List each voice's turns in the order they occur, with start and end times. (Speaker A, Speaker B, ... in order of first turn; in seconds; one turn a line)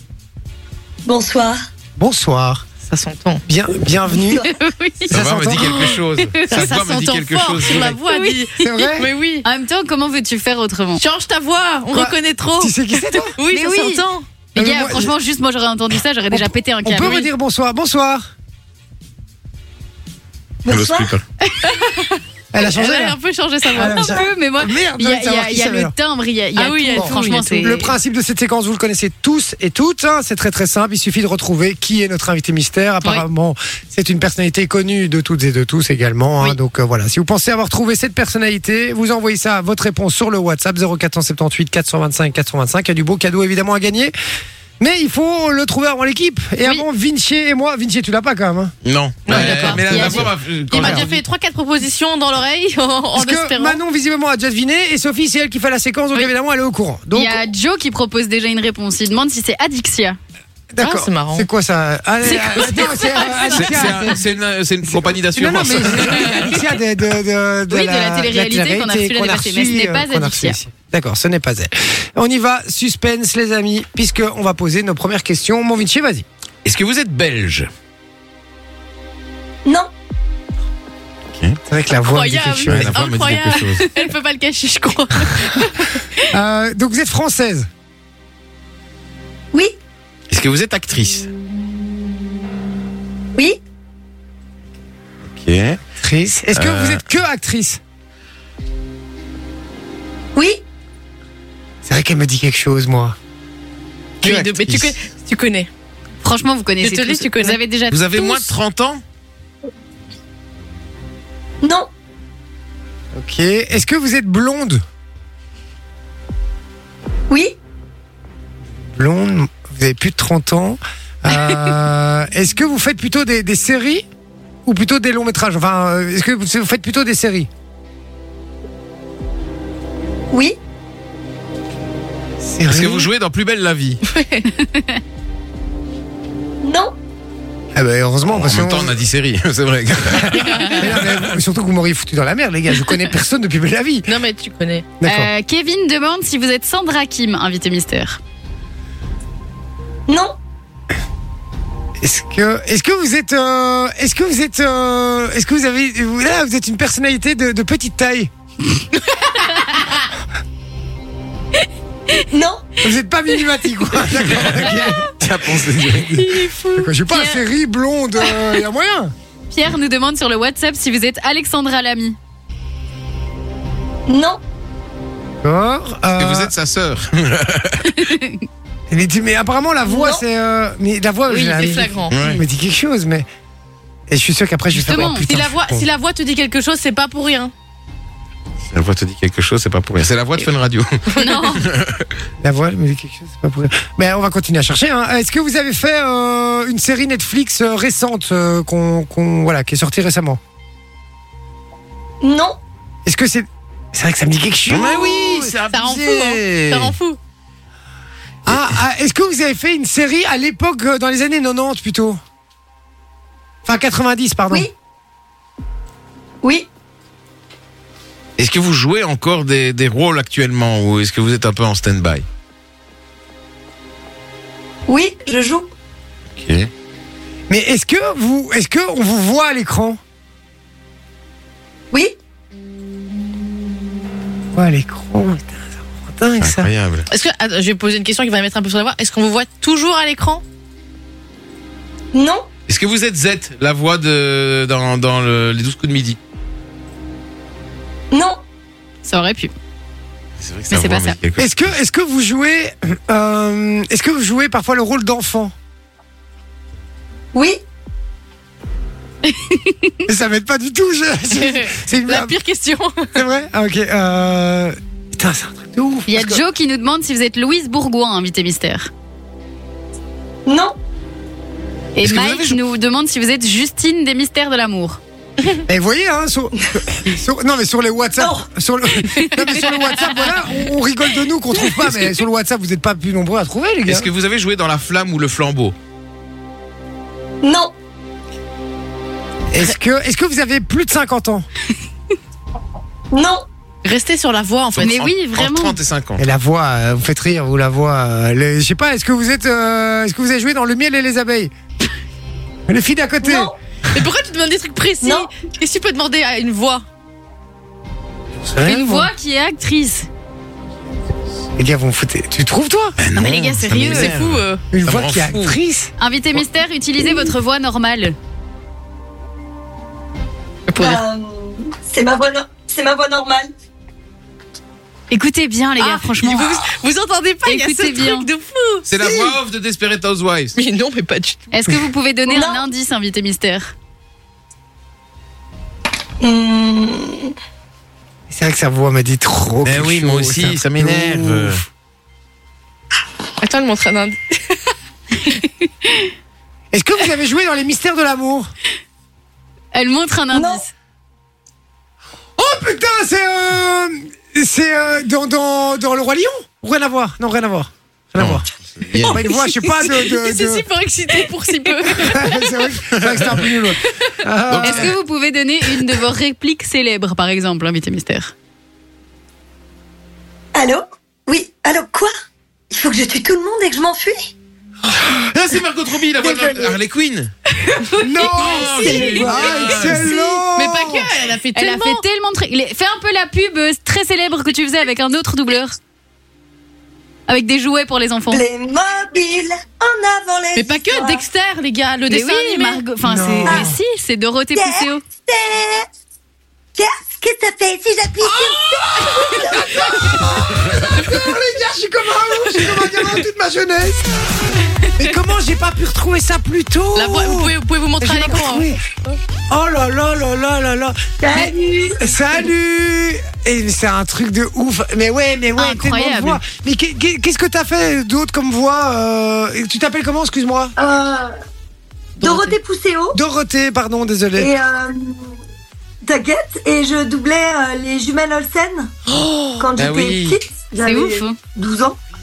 Speaker A: 1.1-1.6
Speaker B: 2.0-2.6
Speaker C: 2.9-3.4
Speaker B: 3.5-4.5
Speaker D: 4.4-5.2
Speaker B: 5.1-6.0
Speaker E: 5.1-8.0
Speaker C: 5.6-6.0
Speaker D: 6.2-6.7
Speaker C: 6.5-9.5
Speaker D: 8.1-8.4
Speaker B: 8.6-9.1
Speaker D: 9.4-11.0
Speaker C: 11.0-14.3
Speaker B: 11.9-13.3
Speaker D: 13.5-17.3
Speaker B: 14.6-15.1
Speaker B: 16.3-18.3
Speaker A: 20.6-21.2
Speaker E: 20.7-21.2
Speaker C: 21.7-22.1
Speaker B: 22.5-23.2
Speaker C: 22.6-24.2
Speaker B: 23.7-25.9
Speaker D: 23.8-27.9
Speaker C: 26.6-27.9
Speaker B: 26.9-44.1
Speaker B: 44.8-48.7
Speaker E: 48.8-51.2
Speaker C: 49.3-53.8
Speaker B: 49.3-51.1
Speaker D: 49.4-50.2
Speaker B: 53.1-57.4
Speaker D: 57.1-60.2
Speaker B: 60.7-64.2
Speaker C: 60.8-61.5
Speaker D: 62.2-64.1
Speaker E: 63.6-66.4
Speaker B: 64.9-76.2
Speaker D: 67.7-70.6
Speaker E: 76.6-77.7
Speaker B: 81.7-83.1
Speaker C: 82.0-86.1
Speaker E: 82.7-83.9
Speaker B: 86.3-87.7
Speaker E: 90.3-91.3
Speaker E: 95.3-95.8
Speaker B: 96.0-97.8
Speaker E: 96.5-97.1
Speaker A: 100.3-100.6
Speaker B: 101.8-103.2
Speaker C: 104.2-105.7
Speaker B: 104.2-104.9
Speaker D: 106.2-108.5
Speaker C: 106.8-107.6
Speaker E: 107.9-109.0
Speaker A: 111.6-111.9
Speaker B: 113.2-114.8
Speaker A: 117.3-117.6
Speaker B: 119.0-124.1
Speaker B: 124.7-127.5
Speaker A: 130.3-130.6
Speaker B: 132.4-133.1
Speaker E: 132.7-134.0
Speaker C: 134.1-134.5
Speaker D: 134.6-135.0
Speaker A: 136.6-136.9
Speaker B: 137.8-139.0
Speaker E: 138.3-141.2
Speaker B: 140.1-144.1
Speaker C: 140.5-140.9
Speaker C: 144.1-144.9
Speaker B: 145.0-145.3
Speaker D: 145.0-148.2
Speaker A: 150.1-150.3
Speaker B: 152.0-158.3
Speaker C: 159.1-159.5
Speaker A: 162.3-162.8
Speaker B: 162.8-165.1
Speaker E: 165.2-166.2
Speaker B: 165.9-169.1
Speaker C: 166.1-166.9
Speaker D: 167.1-167.4
Speaker D: 169.5-172.2
Speaker A: 174.1-174.4
Speaker B: 175.4-176.5
Speaker E: 176.2-177.9
Speaker D: 177.8-178.4
Speaker B: 178.9-183.3
Speaker A: 179.8-180.2
Speaker C: 181.3-182.2
Speaker E: 182.1-182.4
Speaker B: 184.1-185.9
Speaker D: 184.7-185.3
Speaker C: 185.0-187.5
Speaker E: 188.7-192.2
Speaker C: 191.2-191.6
Speaker D: 191.2-191.6
Speaker B: 192.4-200.4
Speaker A: 202.2-202.6
Speaker B: 203.1-205.6
Speaker E: 204.7-207.0
Speaker C: 205.7-207.2
Speaker B: 208.5-212.2
Speaker B: 213.7-214.7
Speaker E: 218.4-222.3
Speaker A: 224.9-225.7
Speaker E: 226.4-226.7
Speaker B: 227.5-230.0
Speaker B: 234.5-236.7
Speaker E: 236.4-237.1
Speaker C: 237.1-240.4
Speaker A: 242.1-242.5
Speaker E: 242.7-246.2
Speaker D: 249.0-249.5
Speaker E: 250.4-251.5
Speaker D: 250.7-251.2
Speaker B: 251.4-255.5
Speaker A: 257.3-257.6
Speaker D: 259.3-259.9
Speaker B: 260.1-262.4
Speaker C: 261.3-263.2
Speaker B: 263.1-266.4
Speaker D: 266.1-268.9
Speaker A: 270.5-270.7
Speaker D: 271.9-275.0
Speaker E: 272.0-272.6
Speaker B: 275.7-284.1
Speaker A: 278.2-278.5
Speaker D: 279.0-280.3
Speaker E: 283.9-285.8
Speaker A: 287.4-287.7
Speaker B: 289.5-291.5
Speaker A: 293.1-293.4
Speaker C: 293.8-295.0
Speaker E: 294.7-296.2
Speaker D: 294.8-295.8
Speaker B: 296.2-301.5
Speaker B: 302.7-303.5
Speaker A: 303.2-303.6
Speaker C: 303.9-306.9
Speaker A: 305.0-305.3
Speaker B: 308.4-309.1
Speaker D: 308.6-310.1
Speaker B: 311.6-312.9
Speaker E: 313.0-315.6
Speaker D: 313.2-314.1
Speaker C: 313.2-314.6
Speaker B: 314.7-316.4
Speaker D: 316.0-318.1
Speaker C: 320.7-321.0
Speaker A: 320.8-323.5
Speaker D: 325.1-326.7
Speaker C: 325.8-328.9
Speaker D: 327.4-328.3
Speaker E: 328.9-330.6
Speaker A: 329.0-329.3
Speaker C: 330.6-331.7
Speaker D: 331.5-333.7
Speaker A: 332.3-332.6
Speaker A: 336.2-337.3
Speaker B: 338.3-341.6
Speaker E: 339.6-341.6
Speaker C: 343.4-344.7
Speaker D: 345.4-346.1
Speaker B: 346.7-348.5
Speaker D: 349.7-350.7
Speaker A: 350.3-350.6
Speaker B: 352.4-360.7
Speaker E: 358.2-359.2
Speaker C: 359.1-362.6
Speaker B: 361.9-364.9
Speaker E: 362.9-363.5
Speaker E: 364.5-365.0
Speaker D: 364.6-368.3
Speaker A: 370.6-372.1
Speaker A: 372.7-374.2
Speaker E: 375.0-377.3
Speaker A: 376.1-376.8
Speaker C: 377.6-382.0
Speaker B: 378.0-381.1
Speaker E: 378.4-380.1
Speaker A: 378.4-379.6
Speaker D: 381.6-385.8
Speaker D: 387.3-388.4
Speaker A: 388.3-391.2
Speaker C: 390.6-392.8
Speaker D: 392.1-395.0
Speaker B: 393.0-393.8
Speaker A: 393.4-393.7
Speaker A: 394.6-395.9
Speaker A: 396.8-400.2
Speaker B: 398.2-404.4
Speaker B: 405.0-408.8
Speaker C: 406.9-409.2
Speaker B: 409.5-420.7
Speaker A: 411.2-412.1
Speaker D: 415.6-416.4
Speaker A: 420.8-421.3
Speaker A: 422.2-423.2
Speaker B: 423.1-424.5
Speaker A: 424.4-425.4
Speaker A: 426.0-428.9
Speaker E: 429.1-430.4
Speaker A: 429.6-432.0
Speaker D: 430.8-431.4